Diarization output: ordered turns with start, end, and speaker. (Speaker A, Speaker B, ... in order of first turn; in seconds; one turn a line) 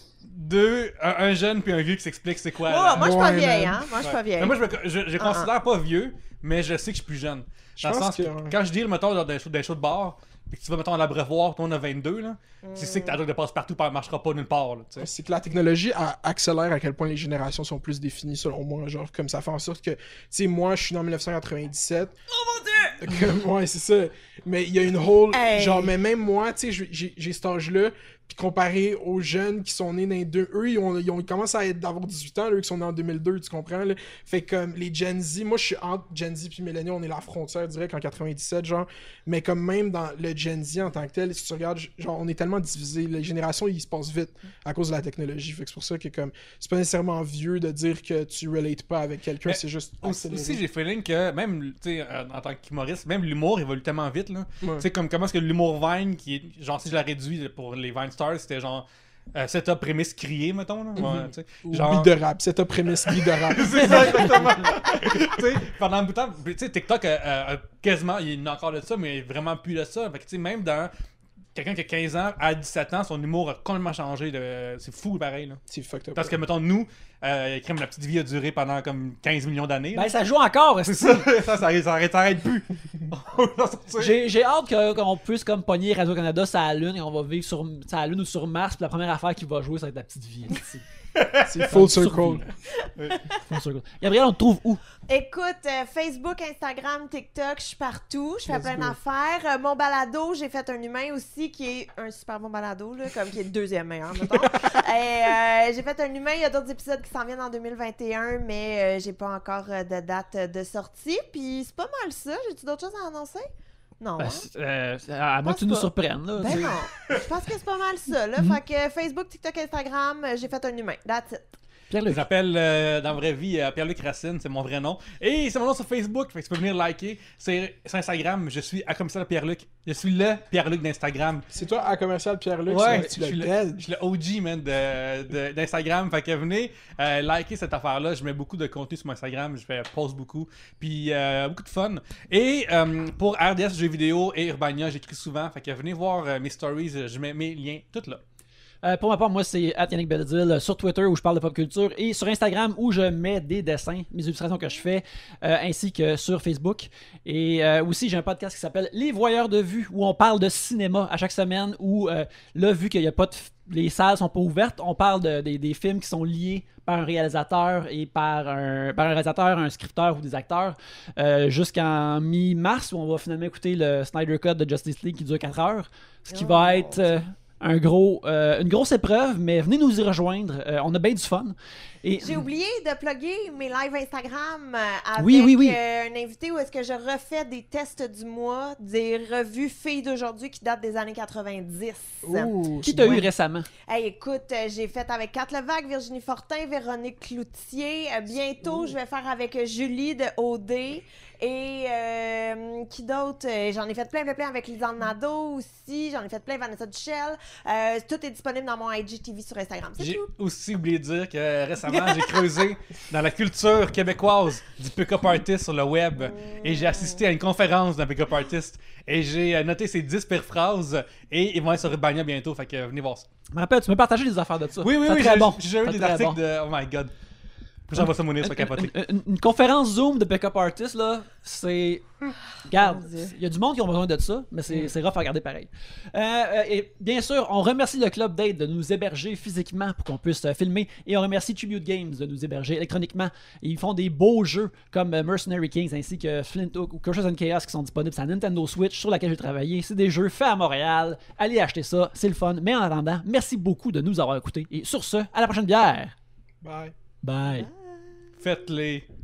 Speaker A: 0.2-3.3
Speaker B: 2.6-4.6
Speaker C: 3.0-3.9
Speaker A: 4.0-15.1
Speaker B: 5.2-5.5
Speaker C: 7.8-8.5
Speaker B: 12.6-13.2
Speaker C: 15.0-22.1
Speaker D: 22.5-22.9
Speaker C: 23.0-50.6
Speaker B: 25.3-25.9
Speaker A: 49.5-62.1
Speaker C: 61.0-65.3
Speaker A: 63.0-70.9
Speaker A: 71.5-75.6
Speaker C: 75.7-76.3
Speaker A: 76.2-80.1
Speaker D: 79.9-81.2
Speaker A: 80.8-84.2
Speaker D: 84.0-90.8
Speaker A: 91.1-91.8
Speaker C: 91.5-92.4
Speaker D: 91.7-92.4
Speaker B: 92.8-93.2
Speaker D: 93.5-94.8
Speaker B: 95.1-113.5
Speaker C: 98.6-98.9
Speaker C: 104.3-104.7
Speaker B: 114.0-114.5
Speaker D: 114.2-116.7
Speaker B: 115.4-121.4
Speaker D: 121.9-122.2
Speaker A: 122.1-131.5
Speaker C: 131.5-133.8
Speaker A: 132.7-148.2
Speaker D: 148.8-182.4
Speaker B: 176.3-177.2
Speaker B: 182.2-192.5
Speaker D: 185.2-185.8
Speaker C: 192.2-193.3
Speaker D: 192.8-193.7
Speaker B: 193.9-210.3
Speaker A: 210.0-223.3
Speaker B: 216.2-217.2
Speaker D: 223.5-226.4
Speaker A: 224.8-227.1
Speaker A: 227.9-228.9
Speaker D: 227.9-232.1
Speaker D: 232.6-256.1
Speaker B: 232.7-233.3
Speaker C: 256.6-256.9
Speaker D: 257.2-257.7
Speaker B: 257.4-258.3
Speaker A: 258.4-259.1